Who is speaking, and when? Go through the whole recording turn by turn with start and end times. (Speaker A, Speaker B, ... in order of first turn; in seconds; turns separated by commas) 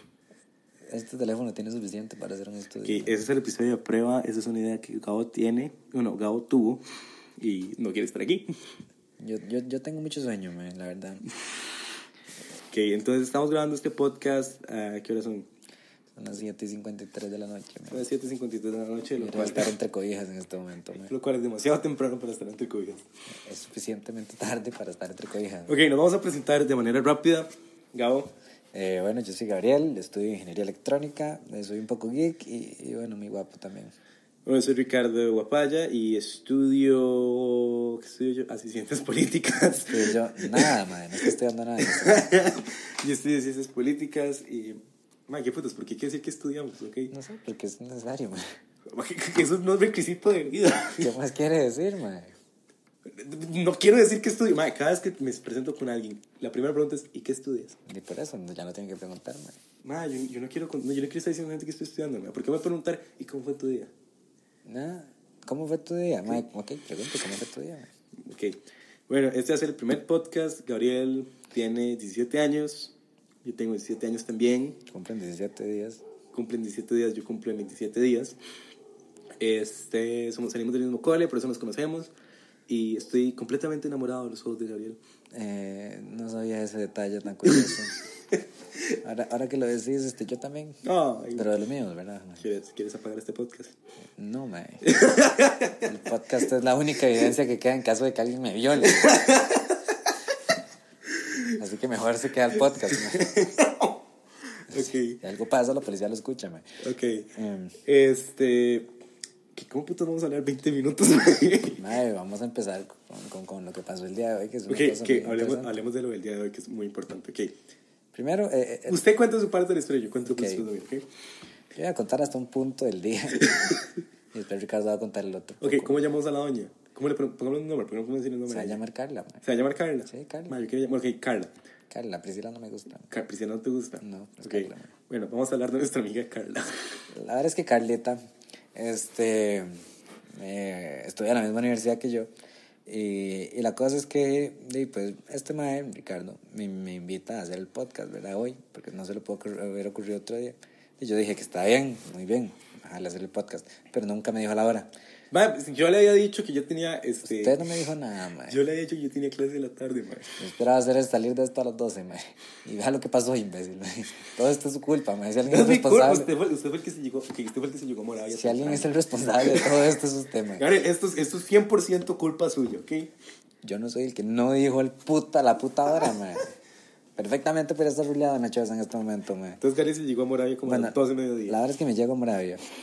Speaker A: 0.9-3.1, Speaker B: 2.8-6.8, Speaker B: 7.4-8.5, Speaker A: 9.2-11.2, Speaker B: 12.7-15.5, Speaker A: 16.1-18.0, Speaker B: 17.9-19.7, Speaker A: 19.2-21.1, Speaker B: 21.0-23.0, Speaker A: 23.4-25.7, Speaker B: 25.7-28.3, Speaker A: 28.7-33.9, Speaker B: 34.5-40.7, Speaker A: 39.9-42.4, Speaker B: 41.8-47.1, Speaker A: 47.1-48.4, Speaker B: 48.9-51.1, Speaker A: 51.0-52.3, Speaker B: 53.1-57.8, Speaker A: 57.9-59.6, Speaker B: 59.8-63.9, Speaker A: 64.7-67.9, Speaker B: 68.2-68.6, Speaker B: 69.1-74.8, Speaker A: 74.9-76.0, Speaker B: 76.3-78.4, Speaker B: 79.4-82.1, Speaker B: 82.7-85.0, Speaker A: 85.3-87.9, Speaker A: 89.0-90.8, Speaker B: 90.8-91.5, Speaker A: 91.3-92.4, Speaker B: 92.4-93.7, Speaker A: 94.2-94.8, Speaker B: 94.8-95.9, Speaker A: 95.8-99.3, Speaker B: 98.8-99.9, Speaker B: 101.2-101.5, Speaker A: 101.6-103.3, Speaker B: 102.8-104.0, Speaker B: 104.7-105.2, Speaker A: 104.7-106.7, Speaker B: 106.8-107.3, Speaker A: 107.3-107.7, Speaker B: 107.8-108.9, Speaker B: 109.5-111.8, Speaker A: 111.8-115.8, Speaker B: 114.7-117.5, Speaker A: 118.1-119.0, Speaker B: 118.9-121.0, Speaker A: 120.3-120.7, Speaker A: 121.7-123.7, Speaker B: 123.3-123.9, Speaker A: 124.3-126.0, Speaker B: 125.6-128.8, Speaker A: 128.5-129.4, Speaker B: 129.4-131.5, Speaker A: 130.1-130.5, Speaker A: 131.9-133.1, Speaker B: 133.1-136.7, Speaker A: 134.0-134.9, Speaker A: 137.1-138.2, Speaker A: 138.7-139.8, Speaker A: 140.3-142.3, Speaker A: 142.9-154.9, Speaker B: 155.3-157.6, Speaker A: 157.2-158.6, Speaker B: 158.5-160.4, Speaker A: 160.4-166.3, Speaker B: 165.4-169.8, Speaker A: 168.3-170.6, Speaker B: 170.6-173.1, Speaker A: 173.6-176.5, Speaker A: 177.2-179.6, Speaker B: 179.6-181.6, Speaker A: 180.7-181.0, Speaker A: 181.5-182.6